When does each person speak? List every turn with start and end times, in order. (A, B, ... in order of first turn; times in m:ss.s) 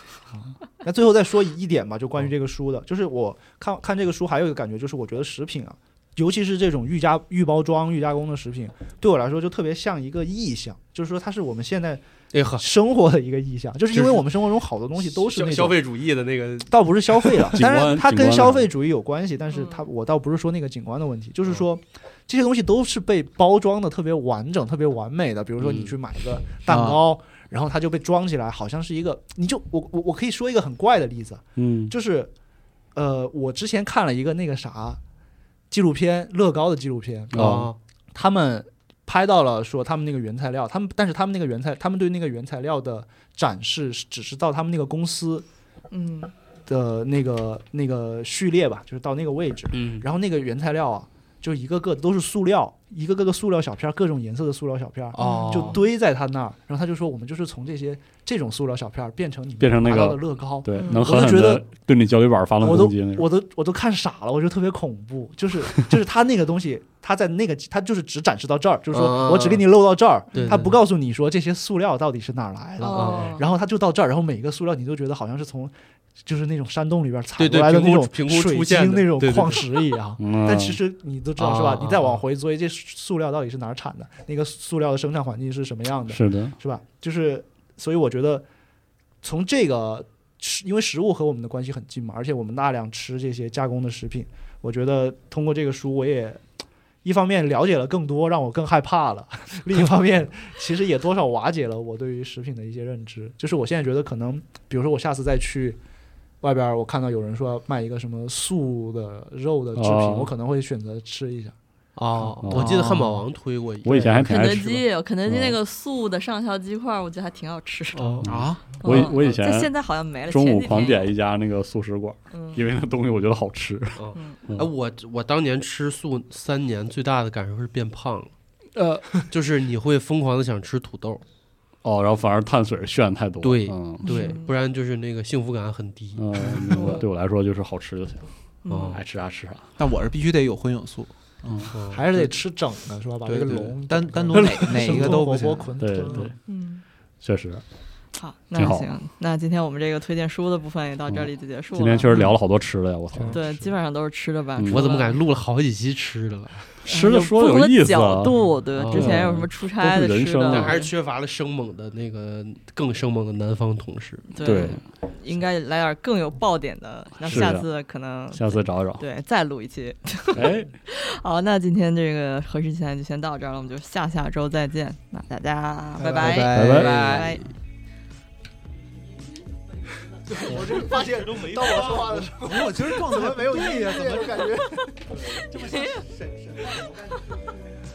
0:00.3-0:12.0 A
0:12.3-0:12.6 B
0:12.6-0:15.8 A
0:13.9-0:14.2 B
0:15.0-0:17.6 B
0:16.7-0:32.3 A
0:17.5-0:18.7 C
0:19.5-0:19.9 D
0:25.6-0:25.9 B
0:26.7-0:27.0 E
0:31.6-0:31.9 C
0:32.9-0:35.0 A
0:35.7-0:37.5 A
0:37.3-0:37.7 C
0:37.3-0:37.8 B
0:38.1-0:45.4 A
0:45.9-0:46.3 D
0:46.7-1:01.7 A
0:49.7-0:50.0 B
0:55.1-0:55.8 D
0:55.2-0:55.8 B
0:59.6-1:03.3 C
1:00.8-1:01.1 D
1:02.6-1:28.4 A
1:08.9-1:09.6 B
1:10.3-1:10.6 D
1:10.3-1:10.8 B
1:12.8-1:13.4 D
1:12.9-1:13.4 B
1:17.4-1:19.7 B
1:20.2-1:20.8 C
1:21.4-1:22.2 B
1:26.1-1:26.5 C
1:29.2-1:36.4 A
1:37.0-1:45.8 A
1:46.4-1:51.5 A
1:49.8-1:50.3 C
1:52.0-1:54.5 B
1:52.2-1:53.1 A
1:52.4-1:52.8 C
1:53.8-1:55.6 C
1:54.2-1:58.3 D
1:57.9-1:59.2 B
1:58.2-1:59.7 C
1:58.2-1:58.6 E
1:58.8-2:01.1 D
2:00.3-2:04.7 C
2:02.3-2:02.6 D
2:04.0-2:08.3 B
2:09.3-2:11.2 B
2:11.8-2:14.3 C
2:13.4-2:17.0 B
2:14.0-2:14.5 D
2:16.2-2:18.3 C
2:16.7-2:17.0 D
2:18.6-2:19.0 D
2:18.7-2:19.0 B
2:18.9-2:19.7 C
2:19.8-2:21.8 E
2:21.7-2:22.0 B
2:21.9-2:26.3 A
2:23.2-2:25.7 E
2:25.8-2:26.3 C
2:26.5-2:26.8 D
2:27.2-2:27.6 C
2:28.1-2:32.3 D
2:28.5-2:28.9 C
2:31.1-2:33.7 C
2:33.3-2:35.2 D
2:34.6-2:34.9 C
2:34.7-2:36.7 B
2:36.8-2:40.8 C
2:36.8-2:40.9 D
2:38.9-2:39.2 B
2:40.4-2:44.3 B
2:44.3-2:57.5 D
2:44.4-2:44.8 C
2:47.2-2:47.7 C
2:48.3-2:49.0 C
2:50.3-2:50.7 C
2:56.0-2:57.4 E
2:56.5-2:57.3 C
3:00.3-3:05.4 A
3:00.4-3:00.8 C
3:01.1-3:02.1 B
3:02.4-3:04.5 E
3:04.4-3:06.0 D
3:05.5-3:06.0 E
3:06.4-3:07.4 A